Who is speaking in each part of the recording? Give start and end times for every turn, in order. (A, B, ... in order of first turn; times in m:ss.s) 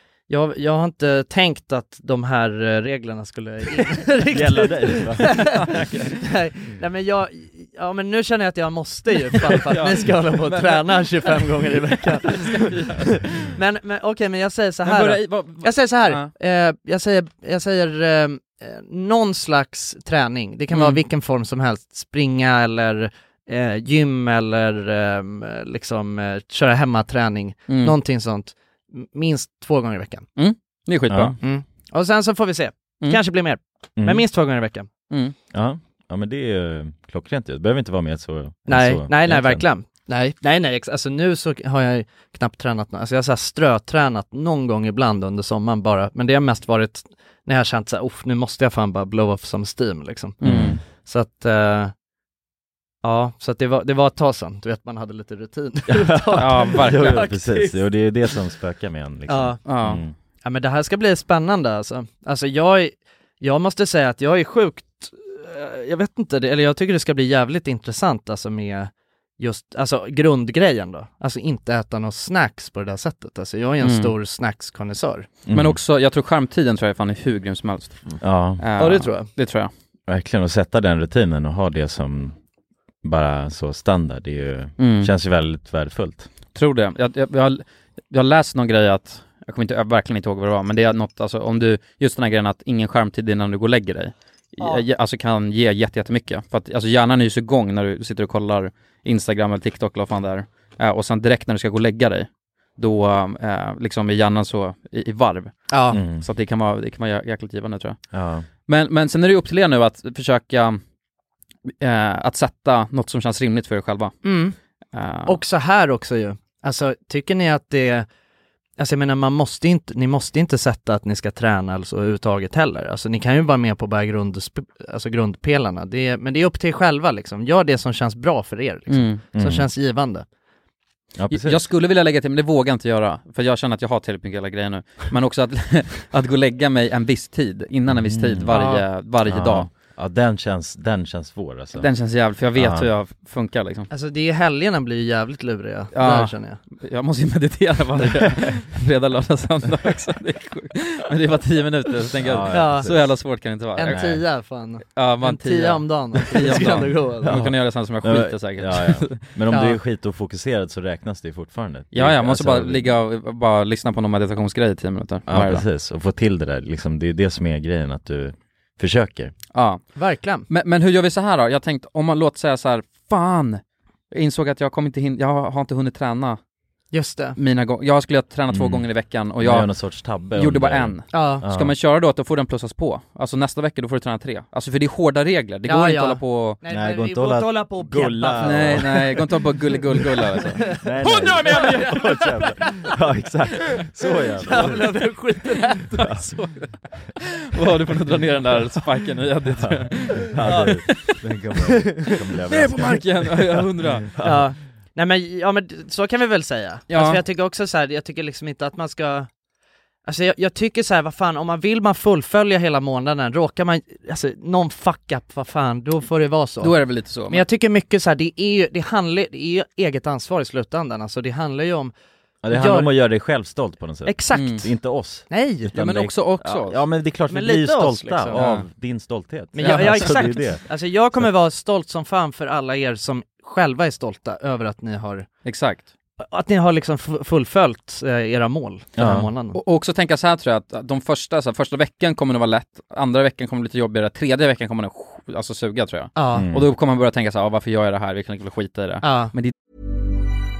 0:00.3-0:30.2 A
0:04.3-0:05.8 B
0:05.3-0:06.1 C
0:09.5-0:11.3 C
0:12.2-0:13.2 C
0:14.8-0:16.3 C
0:20.7-0:21.0 C
0:27.7-0:27.9 C
0:30.4-0:31.4 C
0:31.1-0:31.4 B
0:31.4-0:34.9 A
0:34.0-0:34.2 B
0:35.1-0:35.3 C
0:35.5-0:39.6 B
0:38.7-0:51.9 A
0:50.4-0:50.8 C
0:50.4-0:50.8 B
0:53.0-0:57.8 A
0:55.9-1:00.1 B
0:56.4-0:57.3 C
0:59.3-0:59.6 A
0:59.6-1:00.0 C
1:00.4-1:15.3 A
1:13.8-1:14.1 C
1:15.5-1:15.8 B
1:15.5-1:19.7 C
1:18.2-1:18.6 B
1:18.8-1:19.3 A
1:20.1-1:22.4 B
1:23.0-1:26.3 B
1:24.8-1:25.1 C
1:26.5-1:48.0 C
1:45.7-1:46.0 A
1:45.9-1:46.2 B
1:48.1-1:48.4 B
1:48.6-1:50.8 C
1:51.8-1:54.1 C
1:54.2-1:54.5 A
1:54.9-1:55.4 C
1:55.2-1:58.0 A
1:58.8-2:10.2 A
2:08.9-2:09.2 C
2:09.3-2:09.7 B
2:11.2-2:11.7 B
2:11.3-2:19.7 C
2:17.9-2:18.6 B
2:18.5-2:18.8 A
2:19.2-2:21.9 B
2:21.8-2:23.9 C
2:22.5-2:22.9 B
2:23.9-2:26.6 A
2:25.9-2:34.0 C
2:32.0-2:33.2 B
2:32.5-2:33.0 A
2:33.8-2:37.4 A
2:33.9-2:34.2 B
2:34.9-2:39.2 C
2:36.4-2:43.0 B
2:39.5-2:39.8 A
2:41.9-2:45.6 C
2:45.3-2:49.3 B
2:49.5-2:49.8 C
2:49.9-2:50.5 A
2:50.5-2:56.4 C
2:56.9-2:57.4 A
2:57.4-2:59.7 C
2:58.5-2:58.9 B
2:59.4-3:01.7 B
3:00.3-3:06.6 C
3:01.1-3:01.4 A
3:05.7-3:09.2 A
3:06.7-3:09.2 B
3:08.4-3:11.9 C
3:09.9-3:12.9 A
3:10.6-3:15.1 B
3:14.4-3:16.1 A
3:14.5-3:14.8 C
3:15.9-3:21.2 C
3:19.6-3:24.4 B
3:20.4-3:20.8 A
3:22.5-3:24.1 C
3:22.6-3:23.3 A
3:24.2-3:29.3 A
3:26.9-3:27.2 C
3:30.0-3:36.7 A
3:36.6-3:37.4 C
3:37.3-3:41.9 A
3:42.4-3:50.6 B
3:42.5-3:42.9 A
3:44.0-3:44.6 A
3:44.3-3:44.6 C
3:45.3-3:45.7 A
3:45.7-3:46.8 C
3:47.3-3:48.4 A
3:48.3-3:48.6 C
3:49.5-3:55.3 A
3:49.6-3:50.1 C
3:55.4-3:55.9 C
3:56.2-3:59.6 A
3:59.0-3:59.3 B
3:59.5-4:09.5 C
4:06.2-4:06.4 A
4:06.3-4:06.7 B
4:09.0-4:09.3 A